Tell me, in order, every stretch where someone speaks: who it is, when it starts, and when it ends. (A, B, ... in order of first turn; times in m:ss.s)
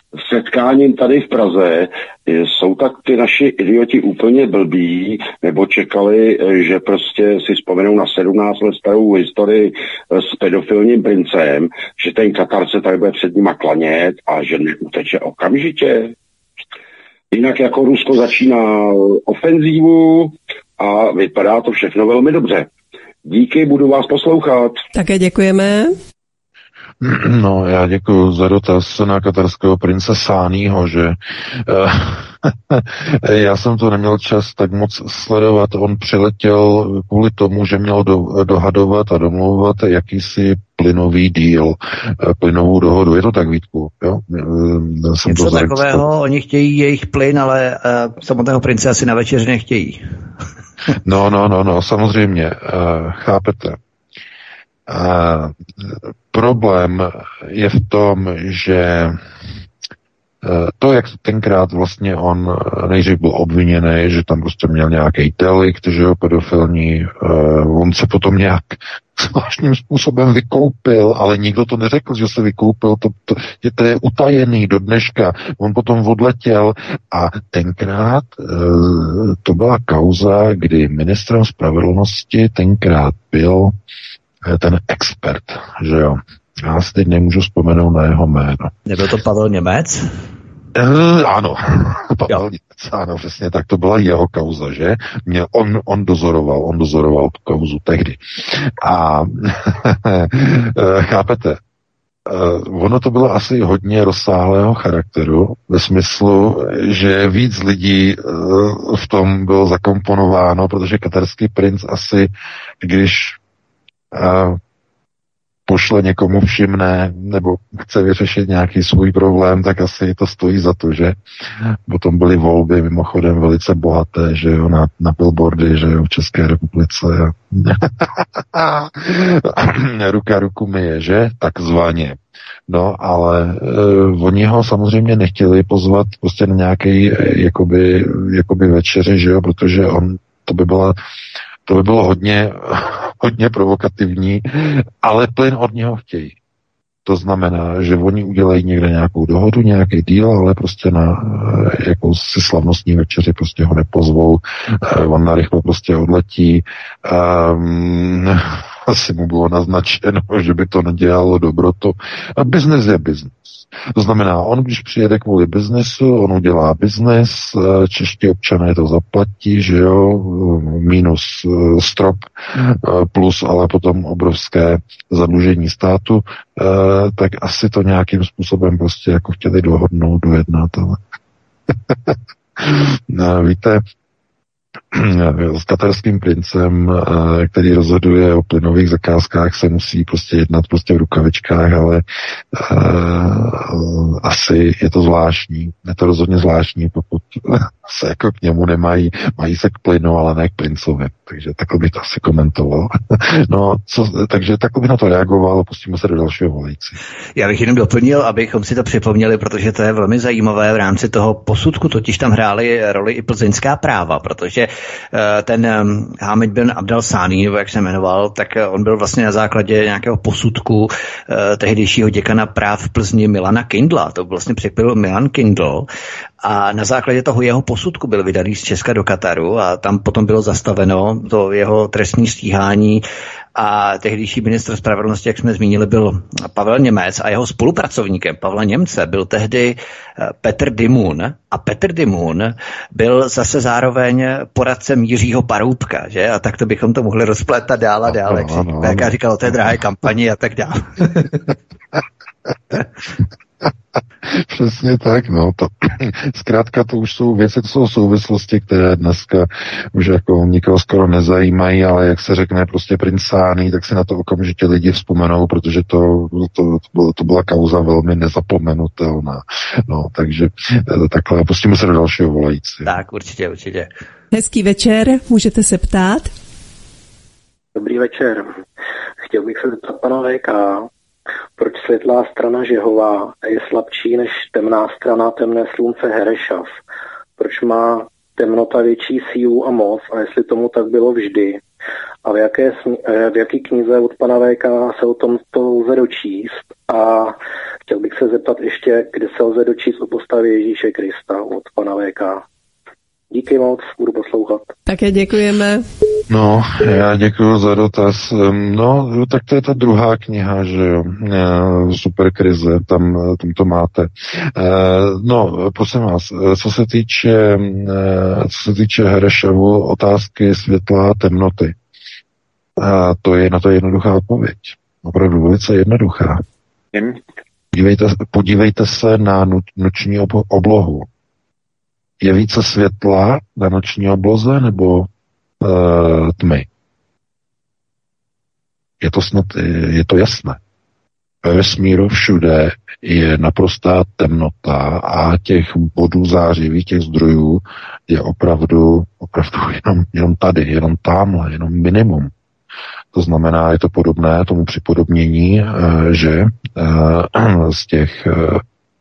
0:00.2-0:16.1 A
0:17.3-0:22.7 A
0:23.2-0:24.8 A
0:24.9-0:25.9 B
0:27.0-0:46.0 C
0:45.3-0:50.0 D
0:51.0-0:53.8 C
0:54.9-0:59.2 C
1:00.4-1:23.7 C
1:24.4-1:28.7 C
1:28.8-1:30.1 D
1:30.7-1:41.6 C
1:42.3-1:52.3 C
1:52.8-1:53.4 C
1:54.1-1:54.6 C
1:55.7-2:21.0 C
2:21.6-2:26.4 C
2:27.0-3:01.0 C
3:01.7-3:03.8 C
3:04.9-3:27.0 C
3:27.4-3:45.9 D
3:46.4-4:11.2 D
4:08.1-4:09.1 C
4:14.2-4:32.9 C
4:32.8-4:33.9 D
4:34.3-4:36.3 B
4:37.7-4:38.5 E
4:39.3-4:40.9 E
4:41.6-4:46.8 E
4:47.4-4:51.6 E
4:52.2-5:02.4 E
5:03.3-5:04.7 E
5:04.9-5:05.8 B
5:06.3-5:21.7 C
5:22.8-5:26.4 C
5:27.7-5:31.1 C
5:32.2-5:35.1 C
5:35.6-5:36.7 C
5:39.0-5:40.6 C
5:41.4-5:52.3 C
5:53.1-5:58.6 C